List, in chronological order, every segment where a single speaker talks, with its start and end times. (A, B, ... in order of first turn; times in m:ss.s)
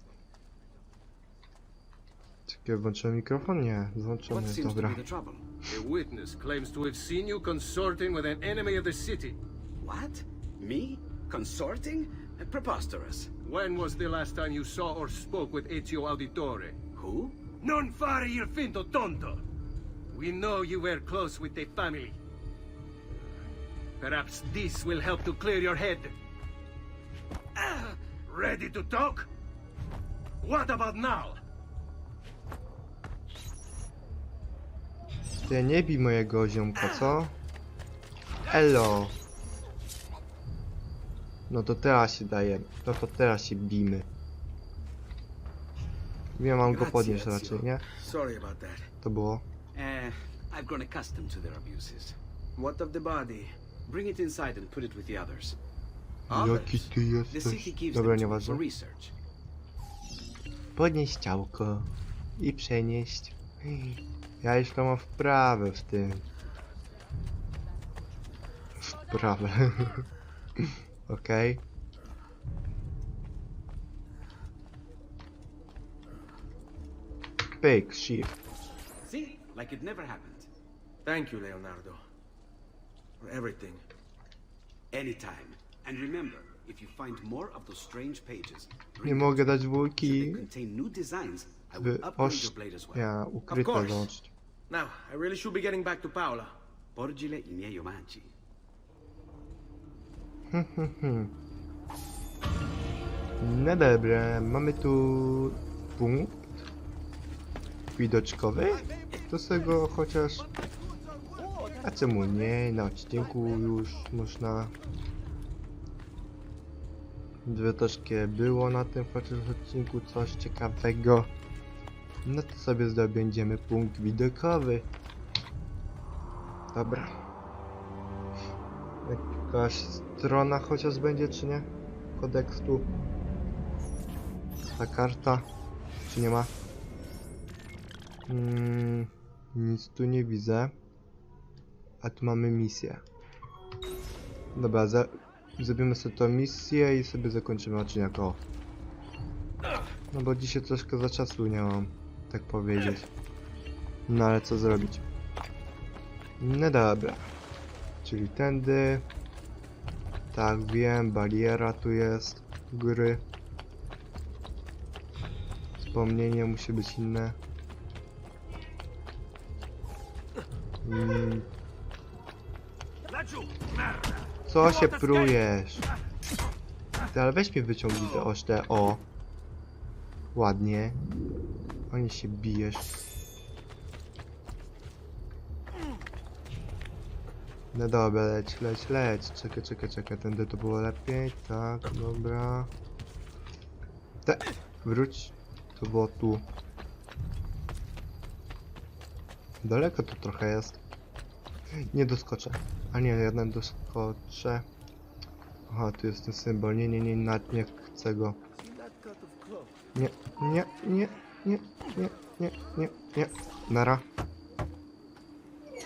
0:02.5-0:05.0 A
0:04.3-0:05.5 B
0:05.6-0:09.4 C
0:09.8-0:13.3 B
0:13.4-0:16.8 C
0:17.0-0:17.4 B
0:17.6-0:19.4 C
0:20.1-0:22.2 C
0:24.0-0:26.1 C
0:27.6-0:29.3 C
0:30.4-0:31.4 C
0:35.5-0:37.4 A
0:38.5-0:39.2 A
0:41.5-0:44.1 A
0:46.4-0:47.9 A
0:46.6-0:47.6 B
0:48.0-0:48.9 D
0:49.0-0:49.4 A
0:49.7-0:52.2 B
0:52.6-0:53.5 D
0:53.9-0:55.6 B
0:56.3-0:58.6 A
0:56.3-0:59.1 B
1:00.8-1:06.3 A
1:08.8-1:10.1 A
1:10.6-1:11.6 A
1:17.6-1:18.4 A
1:19.0-1:20.5 B
1:21.0-1:22.0 D
1:23.2-1:23.8 D
1:24.9-1:33.1 B
1:29.0-1:30.5 A
1:31.8-1:34.3 A
1:33.5-1:34.1 D
1:34.7-1:36.5 D
1:37.0-1:38.3 B
1:40.5-1:41.4 A
1:43.4-1:46.7 A
1:48.0-1:50.5 A
1:51.8-1:54.7 A
1:57.4-2:01.3 A
2:02.2-2:04.9 A
2:06.7-2:07.2 A
2:09.0-2:12.9 A
2:14.8-2:15.5 A
2:16.1-2:16.5 A
2:18.3-2:20.7 A
2:22.0-2:23.0 A
2:24.6-2:28.4 A
2:30.1-2:33.1 A
2:34.1-2:35.0 A
2:36.4-2:37.3 A
2:38.0-2:39.1 A
2:40.3-2:43.2 A
2:45.8-2:47.4 A
2:50.8-2:51.5 A
2:54.5-2:55.9 A
2:57.1-2:59.1 A
3:00.3-3:01.0 A
3:01.9-3:03.0 A
3:07.7-3:12.7 A
3:14.2-3:16.5 A
3:19.6-3:20.8 A
3:21.8-3:24.7 A
3:25.7-3:28.4 A
3:30.0-3:34.1 A